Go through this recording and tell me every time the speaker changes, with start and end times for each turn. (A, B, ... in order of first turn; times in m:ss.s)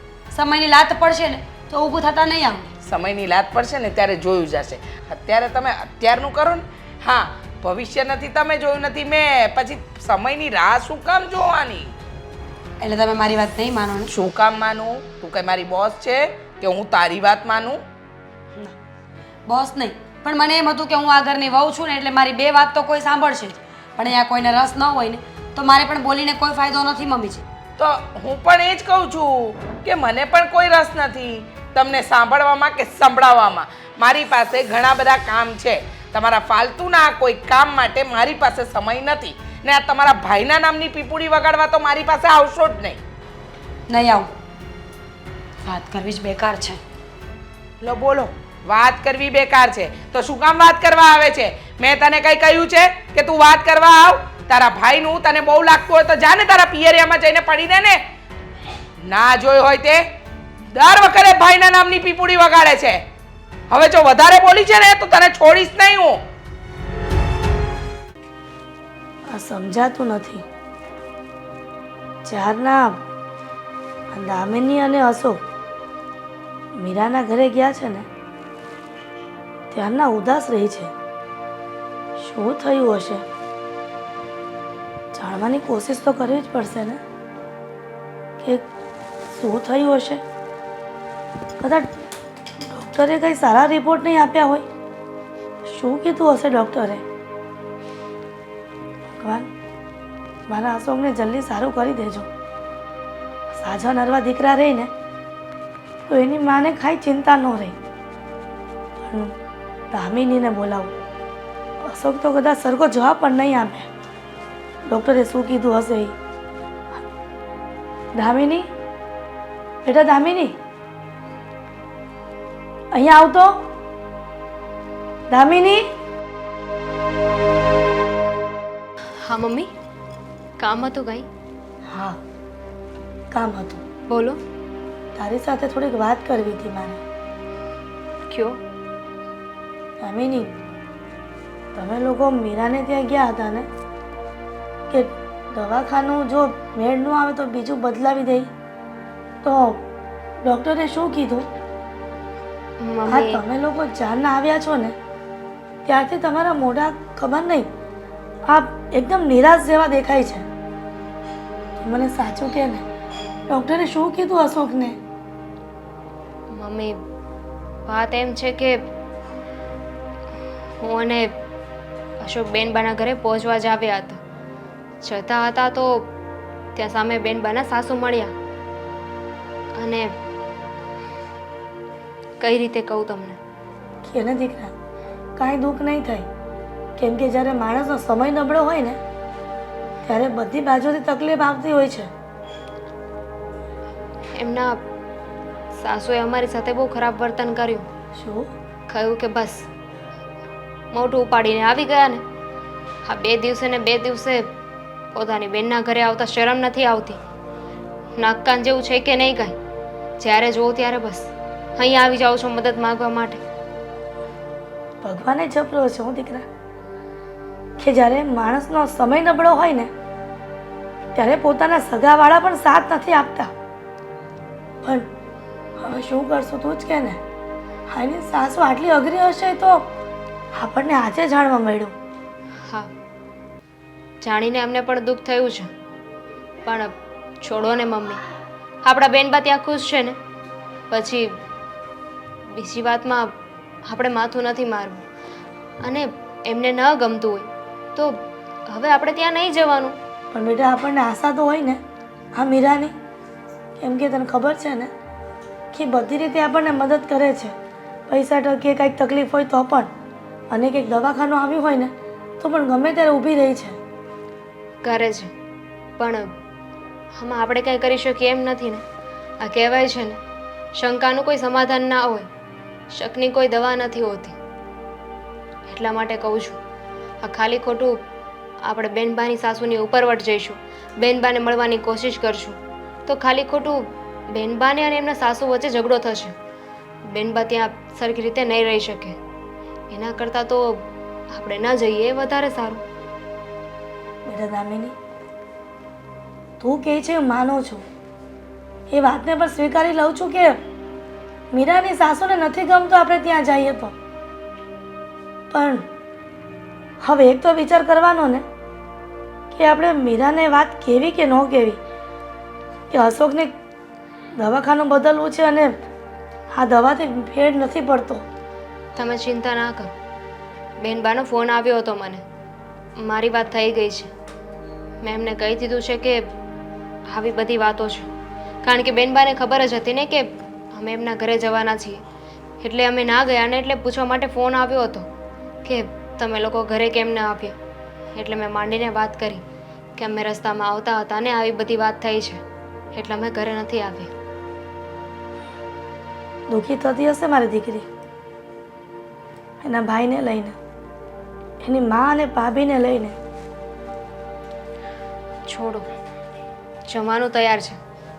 0:00.3-0:02.7 A
0:02.8-0:11.9 B
0:12.8-0:14.1 A
0:14.1-0:17.8 B
0:19.4-0:27.4 A
0:27.8-0:43.0 B
0:43.9-0:44.3 A
0:45.6-0:46.8 A
0:47.8-0:58.0 B
0:59.0-1:00.0 B
1:00.7-1:03.0 B
1:03.7-1:06.2 B
1:09.3-1:10.4 C
1:12.2-1:13.0 C
1:14.1-1:15.4 C
1:16.8-1:18.1 C
1:19.7-1:20.9 C
1:22.2-1:23.2 C
1:25.1-1:27.0 C
1:29.3-1:30.2 C
1:31.6-1:31.9 C
1:32.7-1:34.6 C
1:35.7-1:37.0 C
1:39.2-1:39.5 C
1:40.5-1:42.3 C
1:43.5-1:44.9 C
1:46.1-1:47.8 C
1:49.0-1:49.3 C
1:49.9-1:50.9 C
1:51.8-1:53.9 C
1:54.9-1:56.1 C
1:58.2-1:58.7 C
1:59.8-2:00.5 C
2:02.9-2:03.7 C
2:05.3-2:05.9 C
2:09.2-2:09.7 D
2:10.6-2:11.3 D
2:11.9-2:12.2 C
2:13.3-2:13.8 C
2:14.1-2:14.4 D
2:15.1-2:17.0 C
2:18.3-2:18.6 D
2:20.0-2:20.5 C
2:21.8-2:23.7 C
2:24.9-2:28.5 C
2:29.4-2:29.8 C
2:30.4-2:31.5 C
2:32.8-2:33.4 D
2:33.1-2:35.0 C
2:35.8-2:37.7 C
2:38.5-2:40.5 C
2:41.8-2:42.8 C
2:43.5-2:45.0 C
2:46.5-2:47.0 D
2:47.9-2:48.8 D
2:50.8-2:51.3 D
2:52.2-2:54.2 D
2:55.0-2:56.1 D
2:56.8-2:58.3 D
2:59.8-3:00.1 D
3:02.4-3:03.4 D
3:04.0-3:04.7 C
3:05.4-3:06.3 C
3:07.0-3:09.0 C
3:10.0-3:12.1 C
3:14.4-3:14.8 D
3:15.8-3:17.9 D
3:18.2-3:18.5 C
3:18.9-3:19.6 D
3:20.9-3:22.2 D
3:23.0-3:24.5 D
3:25.1-3:27.2 D
3:28.2-3:29.5 D
3:30.2-3:33.4 D
3:35.0-3:36.4 C
3:37.8-3:39.9 C
3:41.1-3:43.5 C
3:45.8-3:47.2 C
3:47.9-3:49.9 C
3:50.5-3:51.9 C
3:52.6-3:52.9 D
3:54.2-3:55.7 D
3:56.6-3:56.9 D
3:57.4-3:58.2 D
3:58.9-4:00.2 D
4:00.9-4:01.3 D
4:02.6-4:03.3 D
4:03.8-4:05.0 D
4:05.8-4:10.0 D
4:10.3-4:11.8 C
4:12.4-4:13.0 C
4:13.8-4:14.9 C
4:15.7-4:17.5 C
4:18.1-4:19.9 C
4:20.5-4:23.8 C
4:24.8-4:25.3 D
4:26.0-4:26.3 D
4:27.2-4:28.8 D
4:29.4-4:30.2 D
4:30.8-4:32.3 D
4:32.9-4:34.4 D
4:35.7-4:36.6 D
4:37.2-4:38.0 D
4:38.6-4:46.3 D
4:47.1-4:49.2 D
4:49.9-4:52.8 D
4:54.2-4:55.0 C
4:56.6-4:57.8 C
4:58.9-5:00.6 C
5:01.5-5:04.0 C
5:05.5-5:05.9 C
5:07.0-5:08.4 C
5:09.5-5:11.8 C
5:12.9-5:13.5 C
5:14.4-5:15.7 C
5:16.5-5:18.2 C
5:19.0-5:19.9 D
5:20.8-5:22.2 D
5:23.0-5:24.1 D
5:25.0-5:26.3 D
5:27.1-5:28.1 D
5:28.6-5:32.0 D
5:32.6-5:35.1 D
5:35.6-5:37.6 D
5:38.1-5:39.4 D
5:40.0-5:42.4 D
5:42.9-5:44.1 D
5:46.5-5:47.9 C
5:49.6-5:50.6 C
5:51.6-5:53.2 C
5:55.5-5:55.8 D
5:56.9-5:57.8 D